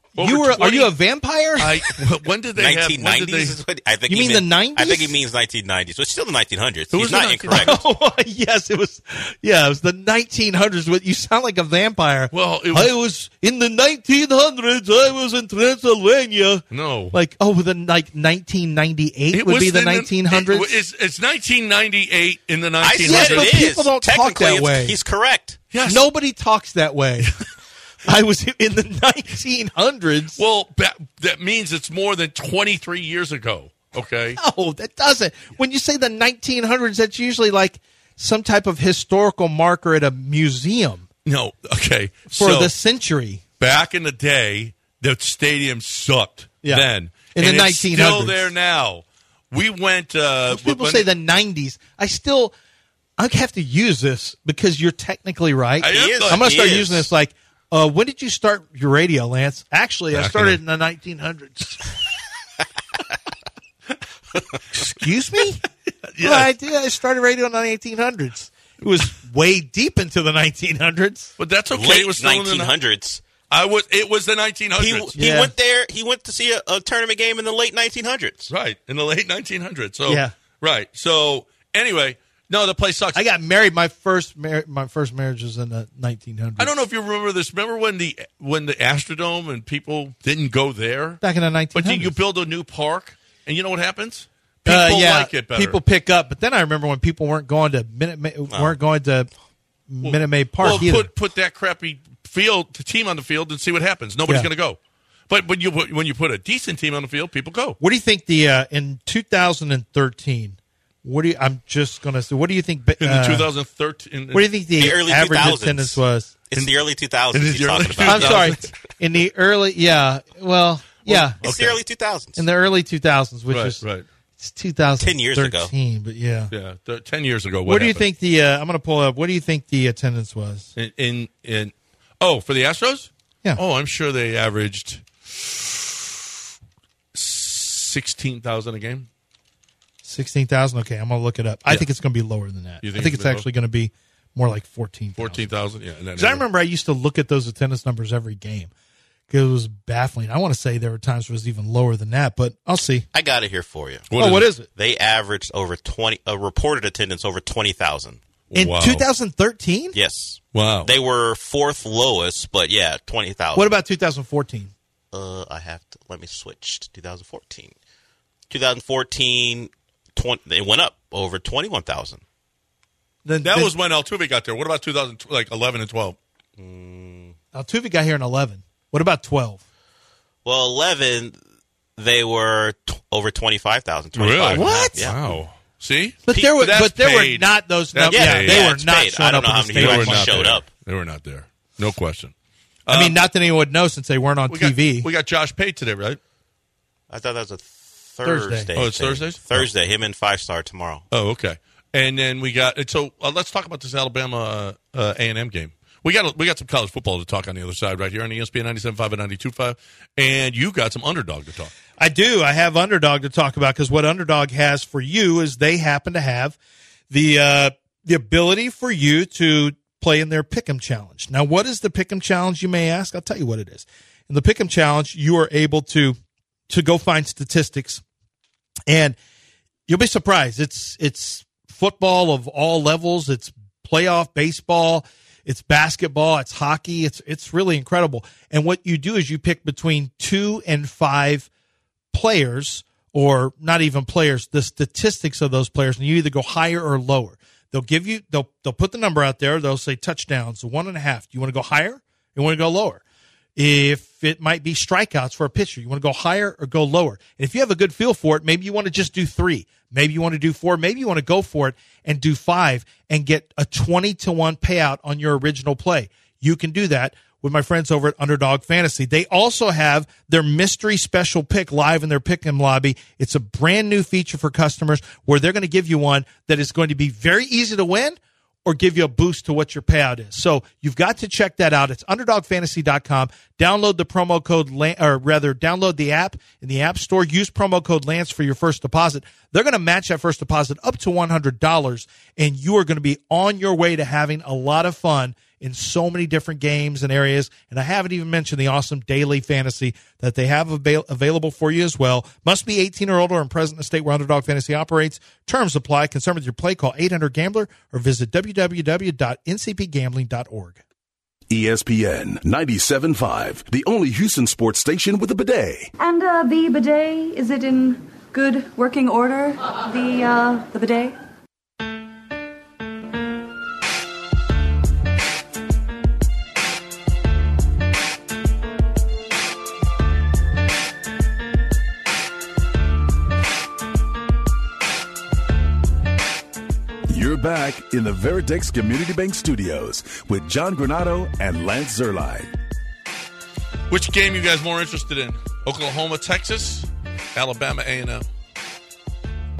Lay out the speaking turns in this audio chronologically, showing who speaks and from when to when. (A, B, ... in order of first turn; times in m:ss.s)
0:00.2-0:00.9 A
0:00.2-0:02.0 B
0:01.6-0:03.6 A
0:02.6-0:07.8 C
0:04.1-0:05.2 B
0:06.9-0:07.8 A
0:07.5-0:20.7 B
0:12.3-0:12.9 A
0:16.7-0:17.2 A
0:19.3-0:23.6 A
0:22.8-0:25.6 C
0:23.0-0:25.0 B
0:25.7-0:26.1 A
0:25.8-0:27.3 B
0:28.0-0:30.4 B
0:30.4-0:34.4 A
0:34.4-0:41.0 B
0:41.2-0:42.7 A
0:42.3-0:43.4 B
0:43.6-0:51.1 A
0:46.6-0:48.5 B
0:50.5-0:52.5 B
0:53.2-1:01.9 B
0:55.8-0:56.5 A
0:55.9-0:57.1 C
1:00.1-1:00.6 A
1:04.7-1:05.6 B
1:06.0-1:06.5 A
1:06.2-1:11.3 B
1:11.4-1:12.8 A
1:11.7-1:13.2 C
1:13.5-1:15.1 A
1:14.8-1:18.5 C
1:15.2-1:15.5 B
1:18.5-1:23.2 A
1:20.1-1:20.3 B
1:23.1-1:26.7 B
1:26.6-1:31.2 A
1:31.2-1:32.1 B
1:31.7-1:35.8 A
1:34.6-1:39.3 B
1:39.9-1:41.1 B
1:40.0-1:44.8 A
1:45.3-1:47.8 A
1:47.8-1:53.5 B
1:53.0-1:54.5 A
1:54.3-1:56.3 B
1:54.8-1:58.6 C
1:57.3-1:58.7 A
1:58.0-2:01.4 B
2:01.1-2:01.8 A
2:01.4-2:02.4 C
2:02.4-2:03.8 B
2:03.5-2:04.0 A
2:04.4-2:06.5 B
2:05.0-2:05.7 C
2:06.5-2:08.0 A
2:07.6-2:10.7 B
2:10.8-2:16.1 A
2:17.1-2:19.1 A
2:20.0-2:25.5 B
2:22.8-2:23.4 A
2:25.2-2:26.4 A
2:26.1-2:28.7 B
2:29.3-2:33.0 B
2:33.1-2:34.1 C
2:34.1-2:34.5 A
2:34.2-2:34.7 B
2:34.7-2:38.2 C
2:38.5-2:39.0 A
2:38.5-2:40.0 B
2:39.9-2:43.7 C
2:40.5-2:40.9 A
2:43.5-2:44.7 B
2:45.1-2:47.7 C
2:48.5-2:52.2 C
2:53.2-2:53.7 B
2:53.4-2:56.2 A
2:56.6-2:57.3 C
2:57.5-2:59.6 B
3:00.4-3:01.4 C
3:02.0-3:05.2 C
3:04.1-3:08.7 A
3:04.5-3:05.0 B
3:06.2-3:10.5 B
3:08.1-3:10.7 C
3:09.8-3:12.3 A
3:12.9-3:13.2 A
3:12.9-3:15.1 B
3:14.5-3:16.2 A
3:17.1-3:21.0 C
3:18.2-3:18.7 B
3:18.7-3:19.7 A
3:21.1-3:31.7 A
3:32.0-3:36.6 B
3:37.1-3:46.2 B
3:46.7-3:48.0 B
3:48.9-3:49.2 B
3:49.9-4:01.5 B
4:02.1-4:13.0 B
4:13.6-5:10.8 B
5:11.5-5:15.9 D
5:16.0-5:21.2 E
5:37.1-5:42.5 D
5:43.9-5:48.2 A